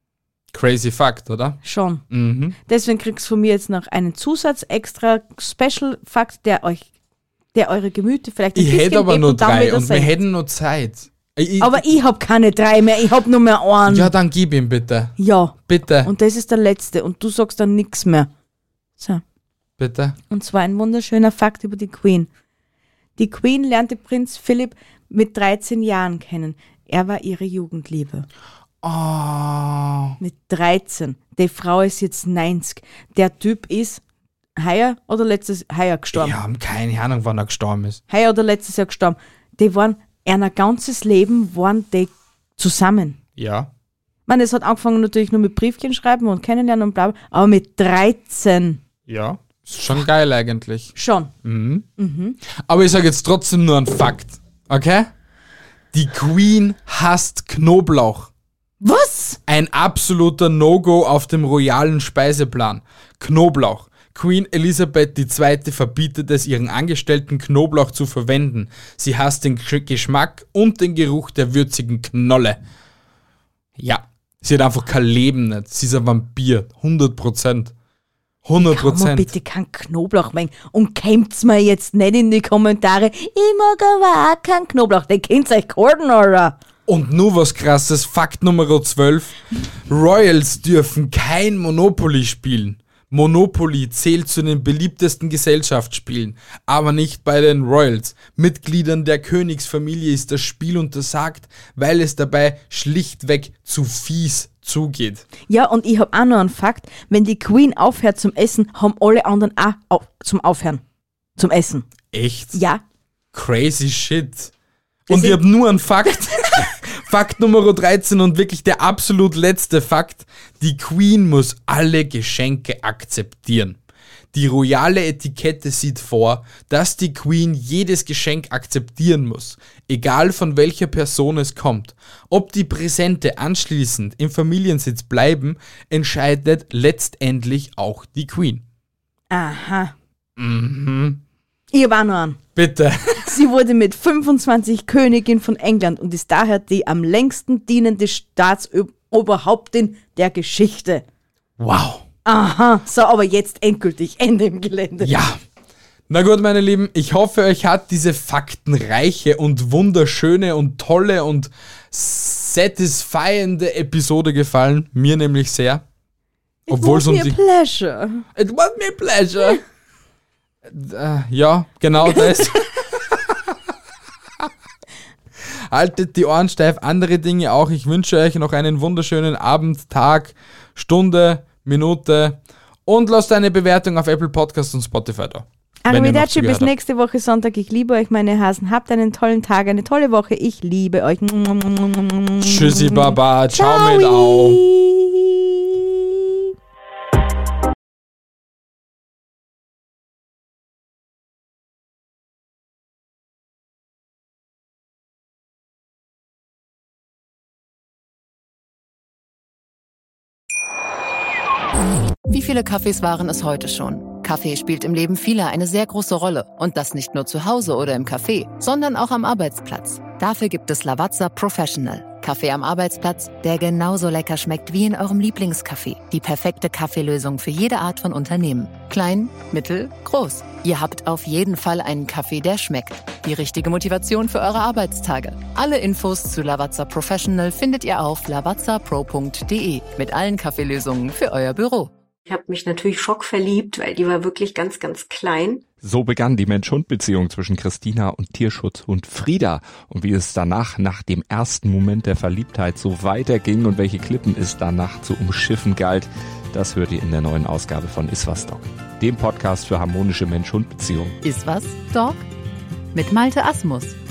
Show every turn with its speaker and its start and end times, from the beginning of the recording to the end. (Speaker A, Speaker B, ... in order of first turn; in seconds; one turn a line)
Speaker A: 0.5-2.6
Speaker B: 1.6-2.0
Speaker B: 2.7-6.9
Speaker B: 7.5-10.1
Speaker A: 8.6-11.8
Speaker B: 11.6-14.1
Speaker A: 13.9-16.1
Speaker B: 15.2-18.3
Speaker A: 19.8-20.2
Speaker B: 20.3-22.3
Speaker B: 23.2-28.3
Speaker A: 28.8-30.2
Speaker B: 30.2-34.0
Speaker B: 34.6-36.4
Speaker A: 36.1-38.0
Speaker B: 38.1-43.2
Speaker A: 43.4-43.7
Speaker B: 44.3-48.8
Speaker A: 49.1-51.9
Speaker B: 51.0-51.3
Speaker B: 52.0-52.4
Speaker A: 52.5-55.1
Speaker A: 55.9-58.3
Speaker B: 58.8-59.4
Speaker A: 59.5-72.6
Speaker A: 73.8-77.7
Speaker A: 78.5-79.3
Speaker B: 78.6-86.6
Speaker A: 86.9-89.3
Speaker A: 89.9-105.2
Speaker B: 105.5-110.8
Speaker B: 111.4-111.9
Speaker A: 112.1-112.6
Speaker B: 112.5-112.8
Speaker A: 113.3-114.5
Speaker A: 115.1-123.8
Speaker B: 115.1-115.4
Speaker A: 124.3-138.6
Speaker B: 139.3-139.9
Speaker A: 140.4-141.2
Speaker B: 141.7-142.4
Speaker A: 142.6-143.4
Speaker B: 143.2-151.0
Speaker A: 151.6-152.0
Speaker B: 152.2-155.2
Speaker A: 155.0-155.4
Speaker A: 156.1-165.8
Speaker B: 166.7-168.3
Speaker A: 166.7-167.4
Speaker A: 168.3-169.6
Speaker A: 170.7-173.5
Speaker A: 175.5-186.7
Speaker B: 185.8-196.4
Speaker A: 192.4-194.6
Speaker C: 212.3-241.9
Speaker D: 242.3-245.6
Speaker E: 245.8-261.2
Speaker C: 261.2-262.2
Speaker C: 262.9-264.0